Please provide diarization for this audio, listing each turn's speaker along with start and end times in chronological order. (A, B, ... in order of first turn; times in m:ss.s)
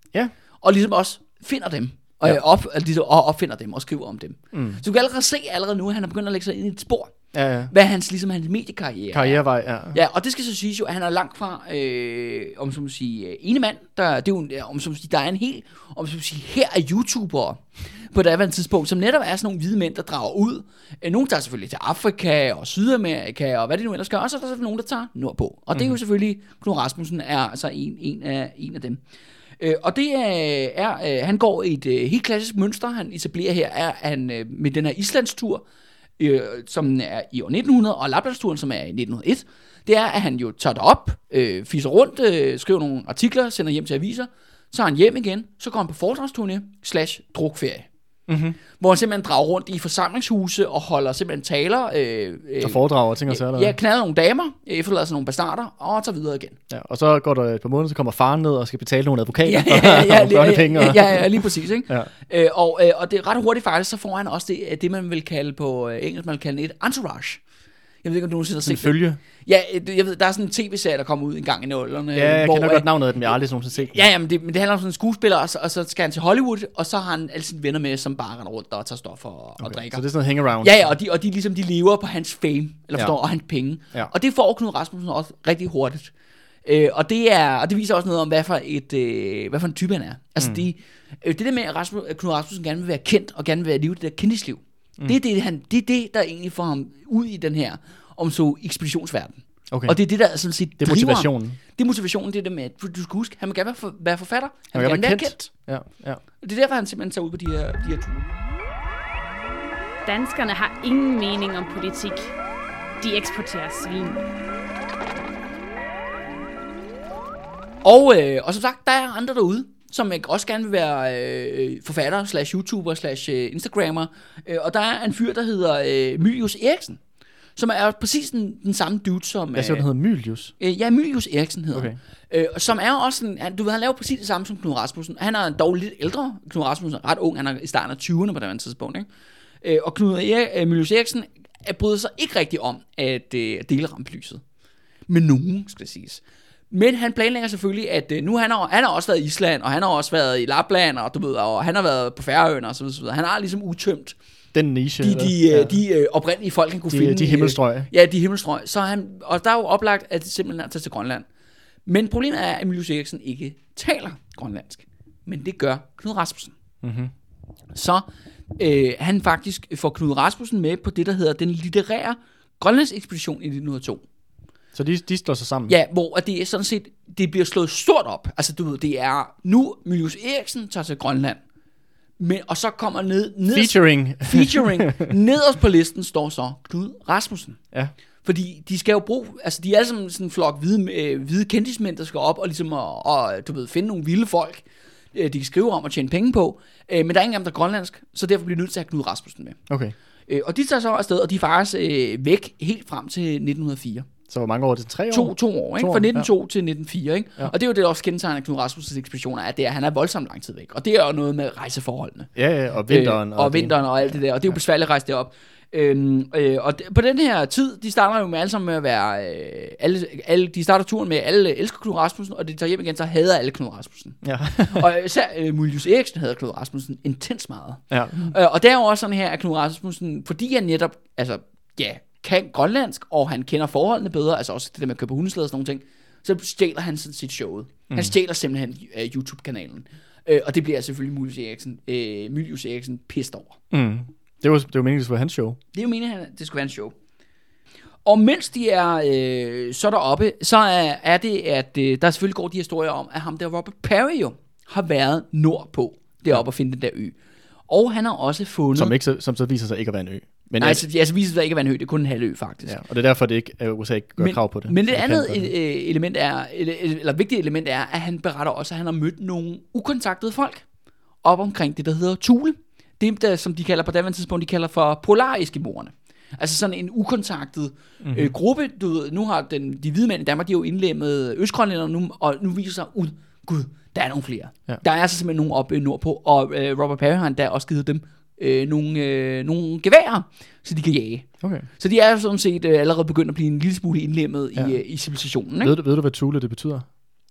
0:00.6-0:07.2 A
0:04.5-0:04.8 B
0:07.3-0:07.7 B
0:07.7-0:29.0 A
0:09.1-0:10.0 B
0:29.6-0:35.6 A
0:36.2-0:47.9 A
0:48.3-0:48.6 B
0:48.8-0:56.6 A
0:52.6-0:53.7 B
0:56.7-1:02.1 B
0:59.4-1:07.4 A
1:08.0-1:20.0 A
1:08.7-1:09.2 B
1:12.1-1:14.0 B
1:19.6-1:20.9 B
1:20.6-1:26.1 A
1:26.6-1:45.5 A
1:39.7-1:40.0 B
1:40.8-1:41.6 B
1:44.7-1:46.2 B
1:46.4-1:48.3 A
1:50.1-1:52.3 C
1:53.0-1:54.2 C
1:57.8-2:07.0 A
2:07.6-2:09.9 A
2:09.5-2:10.5 B
2:10.6-2:19.1 A
2:11.7-2:12.0 B
2:19.6-2:24.4 A
2:25.1-2:34.2 A
2:34.5-2:35.8 B
2:35.0-2:41.2 A
2:36.9-2:37.9 B
2:41.8-2:46.5 A
2:46.8-2:47.1 B
2:47.7-2:48.0 A
2:48.6-2:54.0 A
2:54.7-2:55.7 B
2:55.7-3:01.4 A
3:02.2-3:07.6 A
3:03.5-3:05.1 B
3:08.2-3:19.6 A
3:19.7-3:19.9 B
3:20.3-3:24.1 A
3:24.3-3:26.3 B
3:25.1-3:32.3 A
3:32.3-3:34.5 B
3:32.9-4:03.6 A
3:44.2-3:44.9 B
3:47.9-3:48.3 B
4:03.7-4:05.6 B
4:05.7-4:06.9 A
4:08.0-4:17.1 A
4:17.7-4:18.9 A
4:18.7-4:20.8 B
4:20.6-4:22.8 A
4:22.6-4:25.5 B
4:24.2-4:30.6 A
4:31.2-4:55.7 A
4:38.0-4:38.3 B
4:51.4-4:51.7 B
4:55.6-4:56.8 B